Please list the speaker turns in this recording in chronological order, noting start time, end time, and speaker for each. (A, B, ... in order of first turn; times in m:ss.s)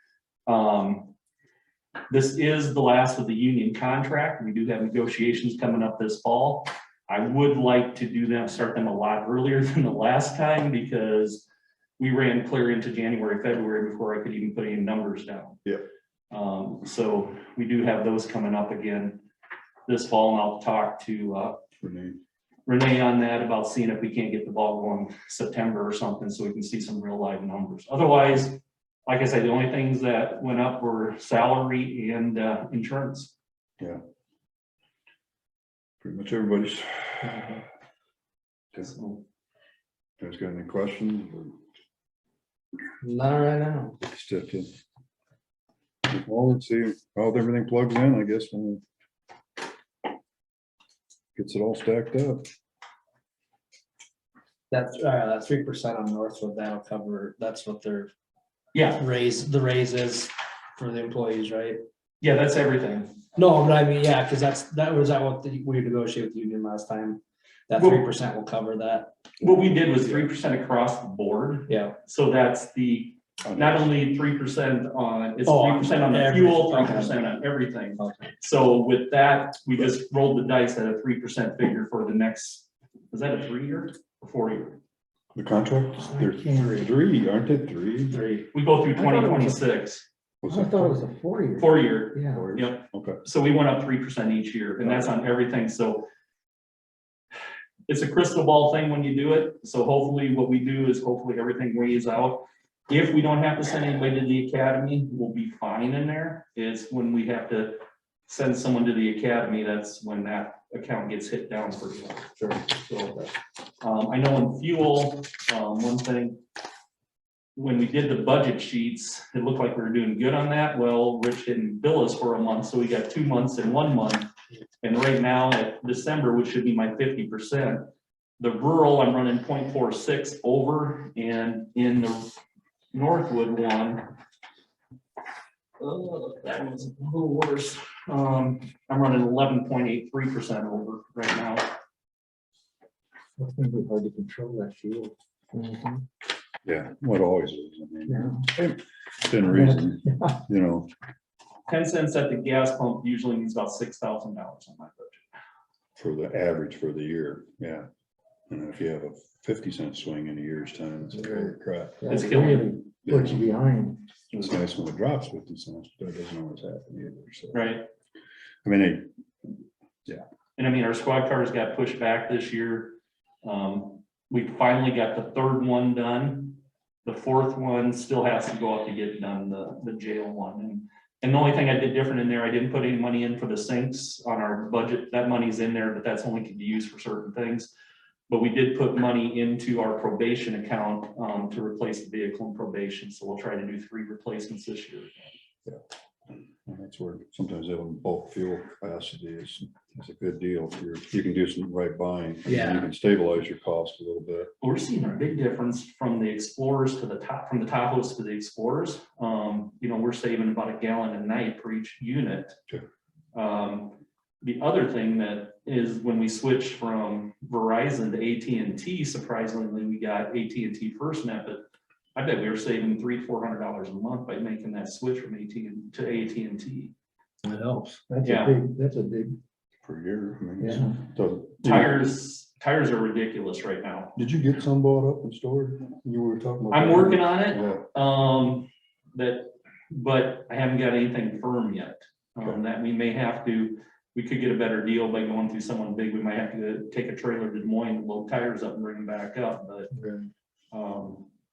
0:00.5-0:01.1 A
0:02.1-0:11.4 A
0:12.0-0:15.6 A
0:16.3-0:19.2 A
0:19.9-0:21.6 A
0:21.8-0:22.2 B
0:22.7-0:33.3 A
0:36.0-0:37.6 B
0:38.8-0:39.2 A
0:40.2-0:41.6 B
0:43.0-0:44.0 C
0:44.0-0:44.7 B
0:46.1-0:48.8 B
0:51.4-0:52.5 B
0:54.7-0:58.1 C
0:58.7-0:59.0 A
0:59.0-1:01.8 C
1:02.2-1:03.2 A
1:03.4-1:09.1 C
1:07.8-1:08.0 A
1:09.4-1:24.8 A
1:11.7-1:12.0 C
1:13.5-1:13.8 B
1:15.5-1:17.2 C
1:18.0-1:18.3 C
1:25.4-1:28.2 B
1:26.1-1:26.9 D
1:28.1-1:28.5 C
1:28.5-1:30.0 A
1:29.1-1:29.4 C
1:30.4-1:31.0 B
1:30.5-1:32.5 D
1:31.6-1:36.1 A
1:32.4-1:33.2 B
1:37.9-1:53.0 A
1:53.8-1:56.4 A
1:57.6-2:04.3 A
2:04.8-2:07.9 A
2:08.4-2:12.3 A
2:12.9-2:14.1 A
2:15.8-2:21.8 A
2:23.4-2:25.8 D
2:25.6-2:26.0 C
2:26.6-2:30.9 B
2:28.1-2:28.4 D
2:31.7-2:35.2 A
2:36.0-2:37.9 B
2:38.5-2:42.2 B
2:42.0-2:44.0 D
2:42.1-2:42.8 A
2:43.0-2:43.5 B
2:44.3-2:47.7 B
2:47.5-2:47.9 A
2:48.6-2:49.5 B
2:50.6-3:07.7 A
3:08.3-3:15.3 A
3:16.6-3:24.5 B
3:22.5-3:22.9 C
3:24.6-3:32.6 A
3:33.3-3:41.6 A
3:42.2-3:46.9 A
3:47.4-3:48.0 C
3:48.1-3:49.4 D
3:48.2-3:48.6 A
3:49.8-3:52.0 B
3:50.6-3:51.0 D
3:51.6-3:54.2 A
3:54.2-3:57.9 B
3:56.7-4:09.9 A
4:10.7-4:11.3 A